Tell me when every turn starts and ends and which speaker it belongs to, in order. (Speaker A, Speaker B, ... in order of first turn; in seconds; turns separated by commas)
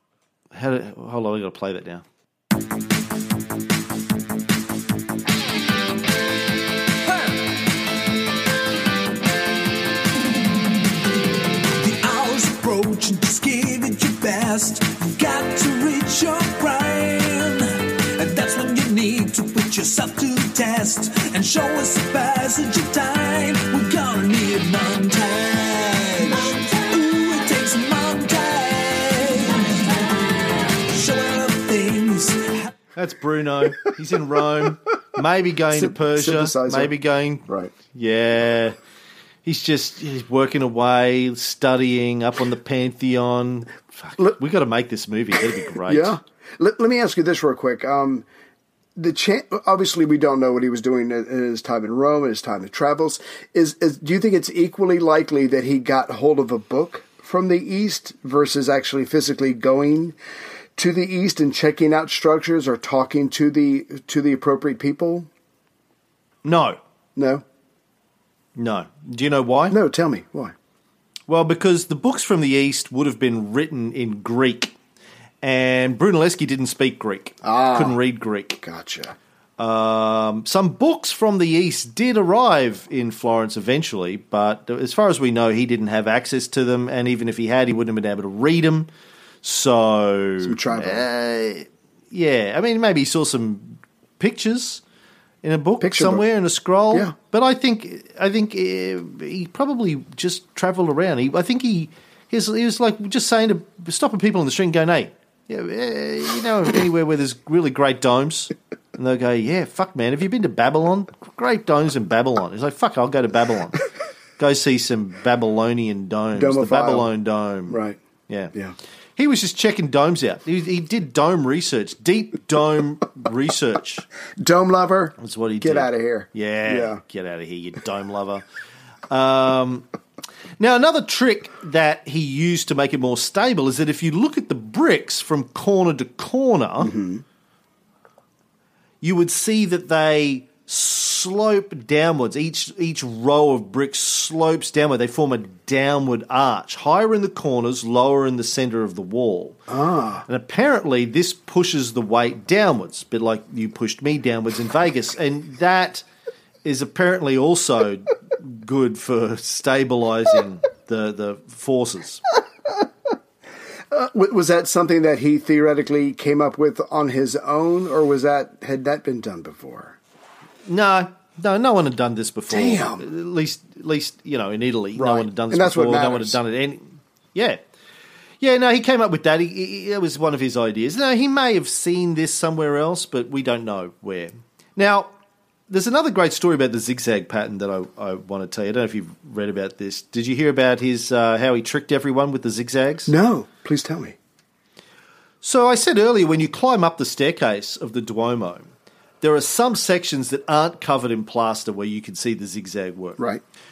Speaker A: 0.5-2.0, Speaker B: 11.8-30.0, Speaker B: 30.6-32.7, Speaker A: 32.9-38.8, Speaker C: 35.7-36.9, Speaker C: 37.5-37.7, Speaker A: 39.4-46.1, Speaker C: 45.8-48.2, Speaker C: 49.0-60.1, Speaker C: 60.8-65.3, Speaker A: 66.4-66.8, Speaker C: 67.2-67.4, Speaker A: 68.5-69.8, Speaker C: 69.7-70.5, Speaker A: 71.3-74.7, Speaker A: 75.4-78.6, Speaker C: 77.4-78.0, Speaker C: 78.6-79.2, Speaker A: 79.6-88.9, Speaker A: 89.4-94.8, Speaker C: 90.4-91.0, Speaker A: 95.4-113.9, Speaker C: 95.8-96.2, Speaker A: 114.4-118.5, Speaker C: 116.3-117.1, Speaker C: 117.7-118.0, Speaker A: 119.2-124.1, Speaker C: 124.4-127.0, Speaker A: 125.2-128.4, Speaker A: 129.1-129.8, Speaker A: 130.6-136.9, Speaker C: 136.8-137.2, Speaker A: 139.0-149.6, Speaker C: 149.7-150.2, Speaker A: 150.2-156.0, Speaker A: 156.6-162.2, Speaker C: 163.9-170.0, Speaker A: 170.7-177.6, Speaker C: 172.5-173.0, Speaker C: 174.9-176.4, Speaker A: 178.4-185.1, Speaker A: 185.7-193.1, Speaker C: 193.1-194.2, Speaker A: 195.4-198.7, Speaker A: 199.2-203.2